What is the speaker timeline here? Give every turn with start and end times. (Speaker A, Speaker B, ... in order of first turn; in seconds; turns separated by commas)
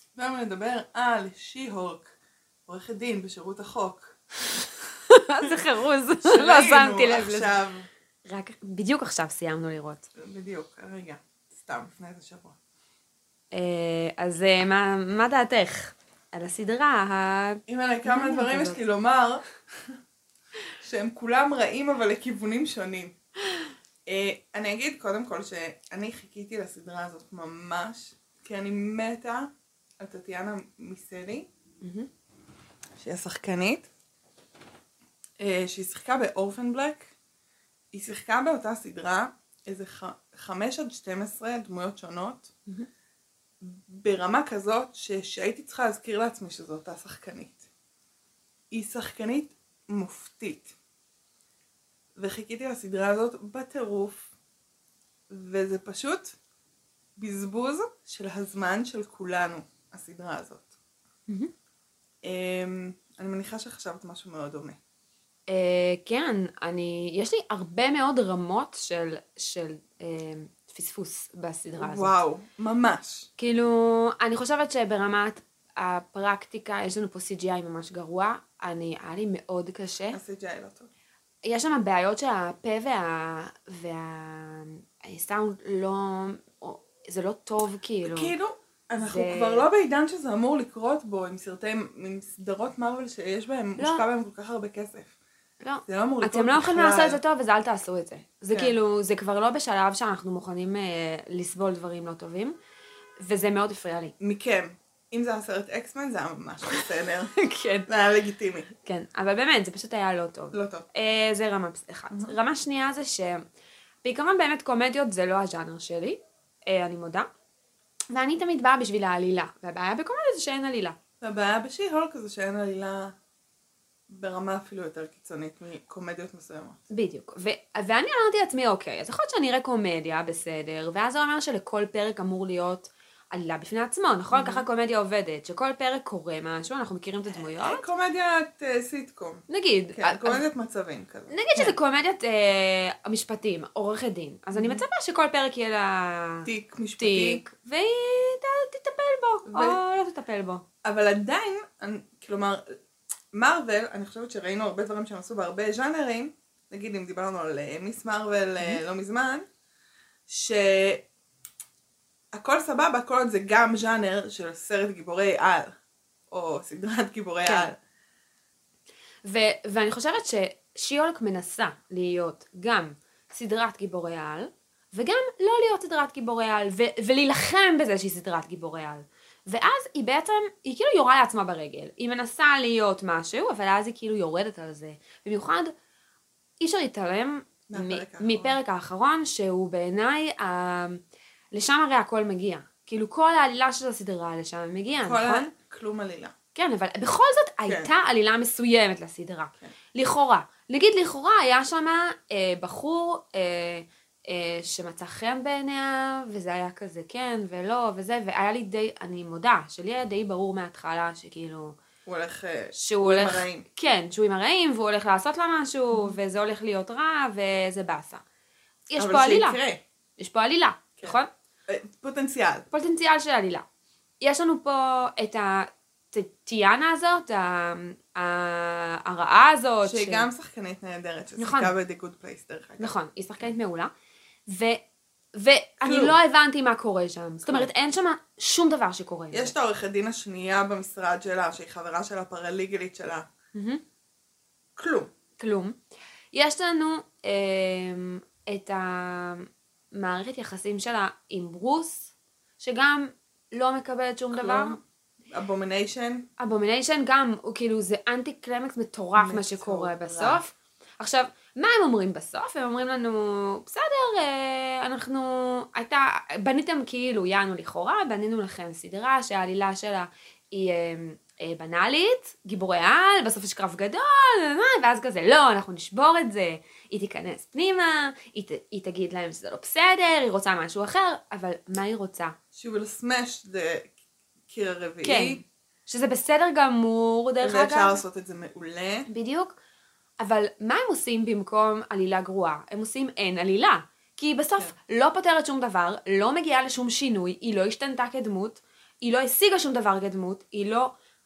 Speaker A: 0.2-2.1, Speaker A: 2.7-4.2, Speaker B: 5.1-7.5, Speaker A: 6.2-7.9, Speaker B: 8.2-10.1, Speaker A: 10.2-12.6, Speaker B: 13.5-18.8, Speaker A: 17.7-19.9, Speaker A: 20.8-23.2, Speaker A: 24.1-31.5, Speaker B: 31.8-32.1, Speaker A: 33.0-33.9, Speaker A: 35.4-37.1, Speaker A: 37.9-42.5, Speaker A: 43.6-47.7, Speaker A: 48.7-50.7, Speaker A: 52.1-54.3, Speaker A: 55.3-56.4, Speaker A: 57.2-60.7, Speaker A: 62.2-64.8, Speaker B: 65.5-72.1, Speaker A: 71.8-73.3, Speaker B: 73.4-80.2, Speaker A: 80.1-80.9, Speaker B: 81.5-88.3, Speaker A: 88.0-95.1, Speaker B: 89.0-89.7, Speaker B: 93.8-94.0, Speaker B: 95.6-102.6, Speaker A: 95.9-97.2, Speaker B: 103.2-104.1, Speaker A: 104.2-107.3, Speaker B: 106.7-107.9, Speaker A: 107.9-108.7, Speaker B: 108.8-113.5, Speaker A: 110.5-110.9, Speaker B: 114.0-117.3, Speaker B: 118.1-121.0, Speaker A: 121.2-123.2, Speaker A: 124.1-126.8, Speaker B: 126.9-137.9, Speaker A: 134.3-134.7, Speaker A: 137.3-141.8, Speaker B: 139.5-140.4, Speaker B: 141.3-150.6, Speaker A: 144.5-144.8, Speaker A: 146.4-147.4, Speaker A: 149.5-149.8, Speaker A: 150.8-152.8, Speaker A: 153.3-159.4, Speaker A: 160.3-161.1, Speaker A: 162.3-165.8, Speaker A: 166.3-167.8, Speaker B: 167.4-167.7, Speaker B: 169.2-185.7, Speaker B: 186.6-195.5, Speaker A: 187.7-188.6, Speaker A: 195.0-196.3, Speaker B: 196.6-211.8, Speaker A: 212.1-213.7, Speaker B: 212.8-218.2, Speaker B: 218.9-219.6, Speaker A: 219.0-219.8, Speaker B: 220.2-221.3, Speaker A: 221.0-222.7, Speaker B: 222.7-223.7, Speaker B: 224.2-230.3, Speaker A: 229.8-232.9, Speaker B: 231.4-231.7, Speaker B: 232.8-233.9, Speaker B: 234.5-234.8, Speaker B: 235.3-239.5, Speaker A: 235.8-236.2, Speaker A: 239.3-243.3, Speaker B: 243.5-243.8, Speaker A: 244.8-245.1, Speaker B: 245.4-245.8, Speaker B: 246.3-254.8, Speaker A: 254.3-256.3, Speaker B: 256.4-282.4, Speaker A: 259.1-260.4, Speaker A: 282.5-283.9, Speaker A: 284.5-285.4, Speaker B: 285.0-288.0, Speaker A: 287.4-289.1, Speaker B: 289.1-289.6, Speaker B: 290.2-300.9